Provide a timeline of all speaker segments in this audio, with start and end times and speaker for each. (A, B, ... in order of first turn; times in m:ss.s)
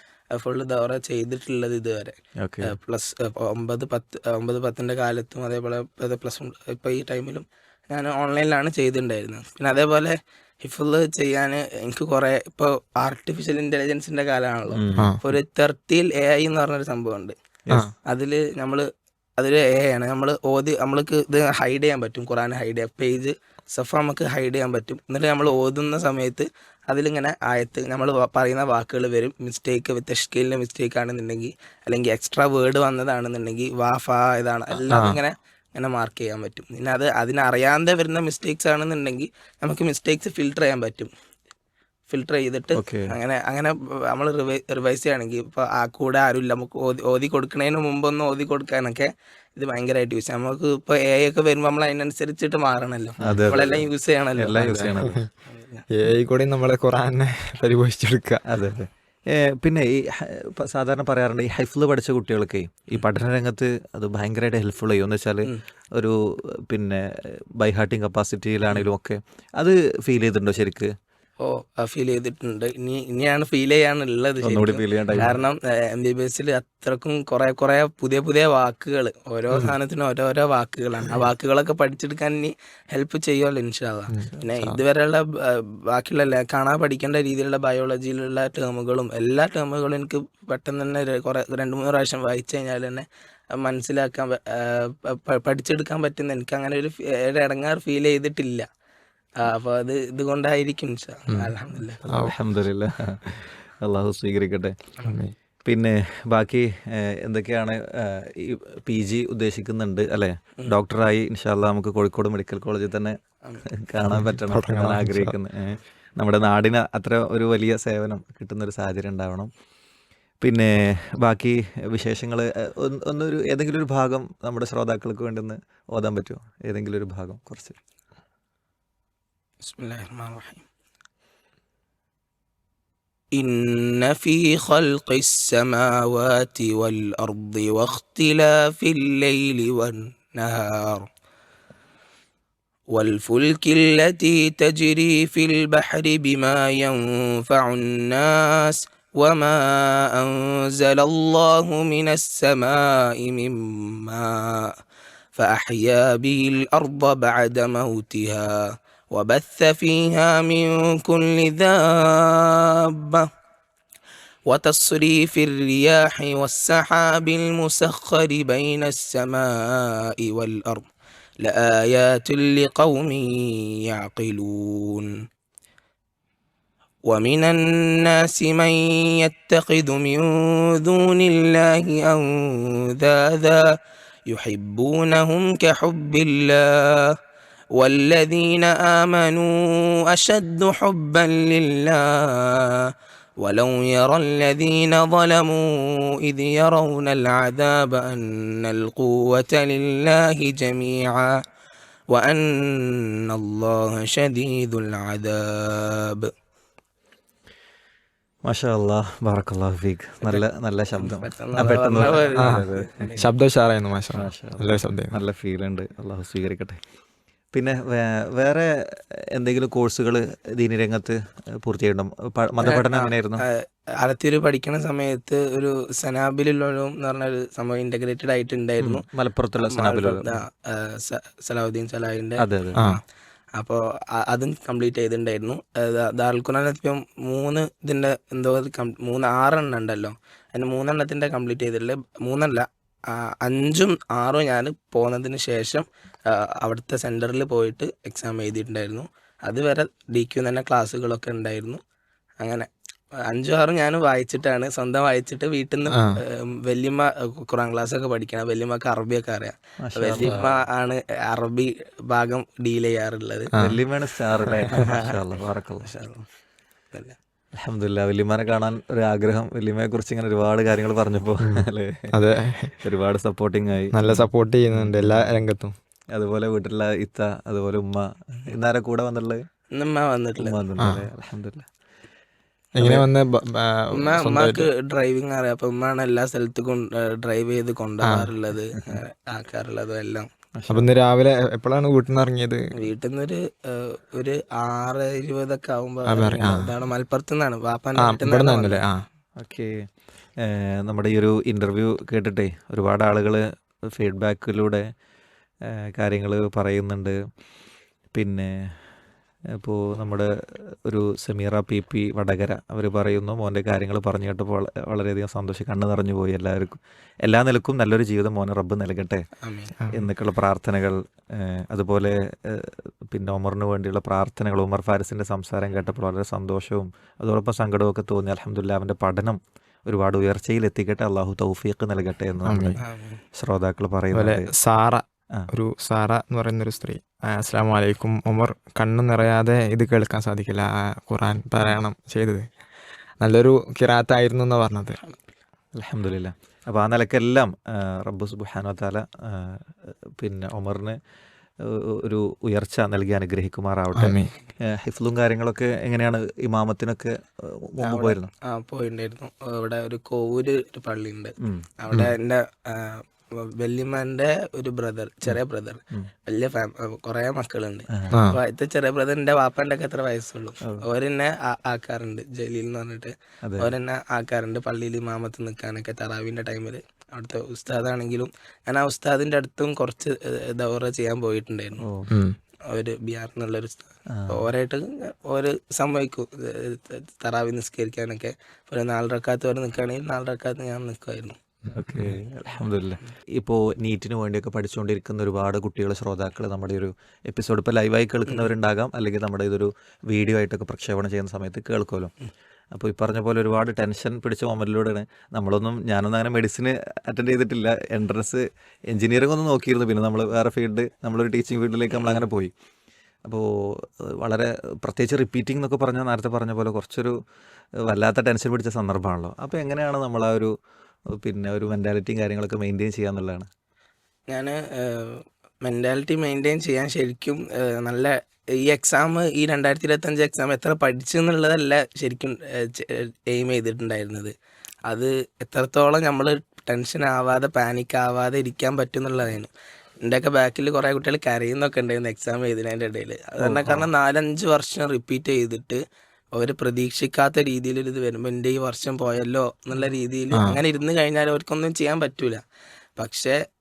0:00.3-0:17.4 A
0:02.4-0:02.7 B
0:14.7-0:15.2 B
0:18.0-0:41.1 A
0:34.9-0:35.2 C
0:42.1-0:54.9 A
0:42.8-0:43.1 B
0:53.2-0:53.8 B
0:54.4-0:55.2 B
0:54.6-0:55.3 C
0:55.5-0:55.8 A
0:55.9-0:58.4 C
0:58.5-1:06.2 B
1:06.7-1:10.9 B
1:11.4-1:38.7 A
1:14.4-1:15.4 B
1:24.1-1:24.8 C
1:39.4-1:42.0 A
1:41.3-1:41.6 C
1:42.0-1:44.8 B
1:42.1-1:42.4 C
1:45.0-1:45.4 C
1:45.7-1:59.5 B
1:54.0-1:55.3 C
2:00.4-2:07.8 B
2:09.6-2:10.6 A
2:13.3-2:21.1 A
2:22.9-2:34.8 A
2:35.4-2:43.3 A
2:44.5-2:50.9 A
2:51.4-2:55.1 A
2:57.1-3:03.7 A
3:04.3-3:07.2 A
3:07.8-3:21.4 A
3:22.1-3:26.3 A
3:28.4-3:33.1 B
3:31.0-3:33.2 A
3:32.4-3:32.6 C
3:33.2-3:35.2 C
3:34.2-3:36.8 B
3:37.5-3:38.7 B
3:39.3-3:43.4 B
3:42.6-3:49.0 A
3:48.8-3:50.4 B
3:49.7-3:53.0 A
3:52.4-3:52.8 B
3:53.6-4:11.8 A
4:12.4-4:12.7 A
4:13.2-4:23.5 A
4:15.9-4:16.2 C
4:19.8-4:20.6 B
4:23.5-4:23.8 C
4:23.6-4:25.9 B
4:24.7-4:25.2 A
4:25.8-4:26.3 A
4:27.6-4:32.2 B
4:31.4-4:32.8 C
4:32.8-4:35.4 B
4:33.9-4:35.8 C
4:36.1-4:39.4 B
4:39.7-4:40.6 A
4:40.4-4:41.7 B
4:40.8-4:41.1 C
4:42.8-4:44.7 C
4:43.9-4:50.3 A
4:48.0-4:48.3 C
4:50.6-4:50.9 B
4:50.7-4:52.7 C
4:52.8-4:58.8 A
4:56.1-4:56.8 C
4:58.0-4:59.0 C
4:59.4-4:59.9 B
5:00.4-5:04.8 B
5:05.6-5:07.2 B
5:08.1-5:08.8 B
5:09.6-5:10.3 B
5:10.8-5:19.3 B
5:19.4-5:19.8 A
5:19.9-5:32.8 B
5:32.5-5:32.8 C
5:32.8-5:33.2 A
5:33.4-5:34.5 B
5:34.1-5:42.5 C
5:43.2-5:45.0 C
5:45.8-5:51.0 B
5:51.6-5:58.3 B
5:54.0-5:54.3 C
5:57.8-6:21.8 A
6:01.4-6:01.6 B
6:01.9-6:02.2 C
6:07.9-6:08.2 B
6:08.1-6:08.4 C
6:13.4-6:13.7 B
6:21.8-6:22.1 B
6:22.1-6:22.4 C
6:22.7-6:31.4 A
6:24.1-6:24.4 B
6:31.7-6:42.1 B
6:31.8-6:32.2 C
6:42.7-6:52.5 B
6:52.0-6:52.2 A
6:53.2-6:57.2 B
6:57.8-7:00.5 B
7:01.1-7:03.5 B
7:04.3-7:14.4 A
7:14.9-7:19.5 A
7:20.0-7:25.8 A
7:23.4-7:23.9 B
7:26.3-7:32.4 A
7:30.3-7:30.6 C
7:33.0-7:33.4 A